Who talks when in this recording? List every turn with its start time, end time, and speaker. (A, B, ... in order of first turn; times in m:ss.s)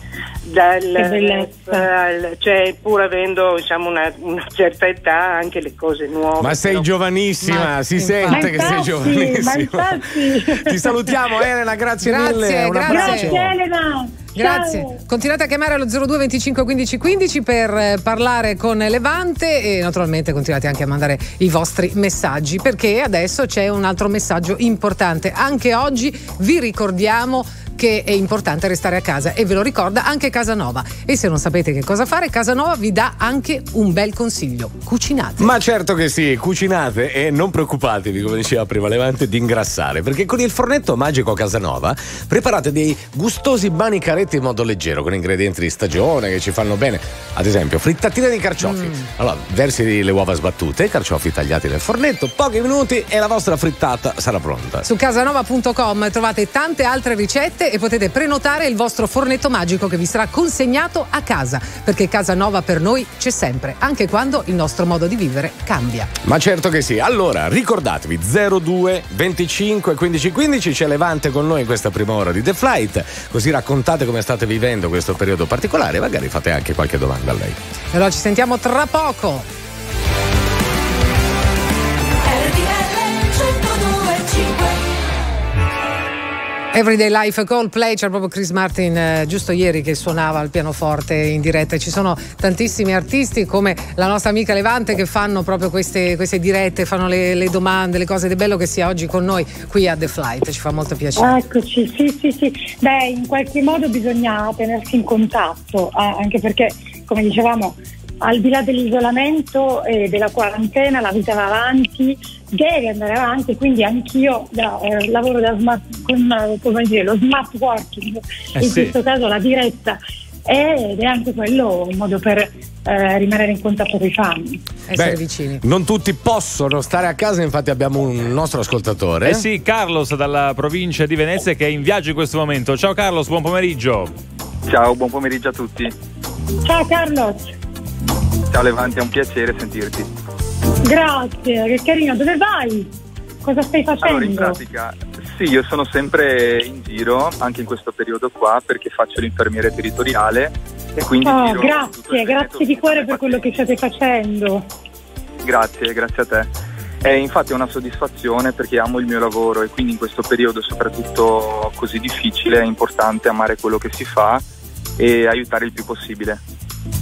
0:00.4-0:06.9 A
0:00.9-0:01.9 B
0:06.4-0:13.5 C
0:07.4-0:08.8 D
0:08.3-0:11.1 B
0:12.0-0:13.4 D
0:12.9-0:15.0 B
0:14.4-0:35.5 D
0:35.4-0:54.9 C
0:48.6-0:49.0 D
0:54.8-1:06.1 D
1:06.2-1:17.6 C
1:17.9-1:19.5 D
1:26.7-1:41.4 D
1:41.2-2:04.6 B
1:58.6-1:59.0 E
2:04.9-2:05.6 D
2:04.9-2:09.5 C
2:09.2-2:14.1 E
2:14.7-2:15.9 F
2:16.6-2:17.5 B
2:18.5-2:20.1 F
2:20.8-2:22.9 B
2:23.4-2:24.6 B
2:24.0-2:33.5 F
2:31.2-2:34.6 B
2:35.4-2:36.5 F
2:37.0-2:44.4 F
2:45.0-2:46.4 F